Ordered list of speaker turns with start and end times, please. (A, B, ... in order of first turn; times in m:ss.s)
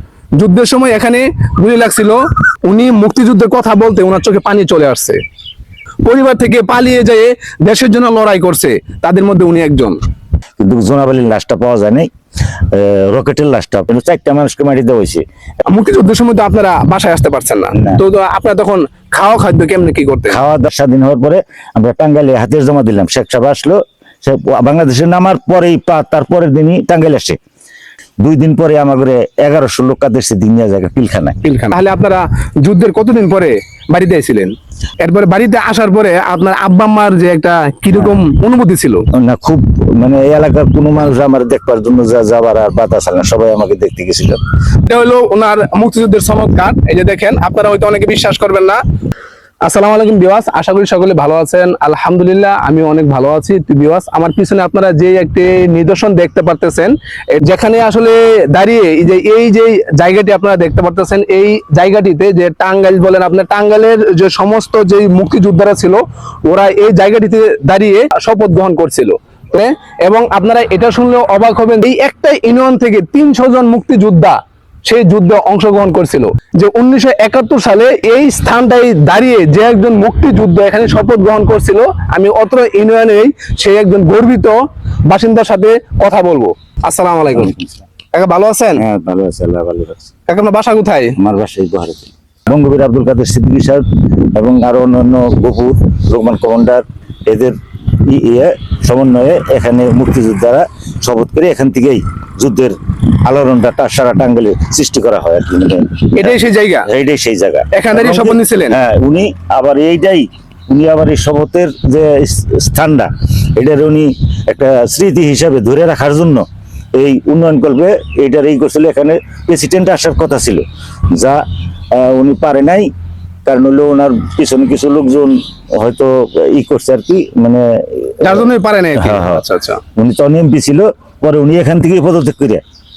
0:00.3-0:05.2 A
0:06.0-0:10.0 A
0:10.6-0:15.2 B
0:15.7-0:20.4 A
0:17.7-0:18.0 B
0:20.3-0:27.4 B
0:28.2-0:31.4 B
0:31.4-0:39.0 A
0:38.0-0:38.2 B
0:39.1-0:44.4 B
0:44.8-0:48.8 A
0:49.6-1:27.5 A
1:27.3-1:27.8 B
1:28.1-1:28.8 A
1:28.8-1:30.1 B
1:30.3-1:31.2 A
1:31.2-2:01.4 B
1:46.2-1:46.9 A
1:47.7-1:48.8 A
2:01.9-2:02.9 B
2:03.4-2:09.4 B
2:08.2-2:09.8 A
2:10.0-2:12.6 B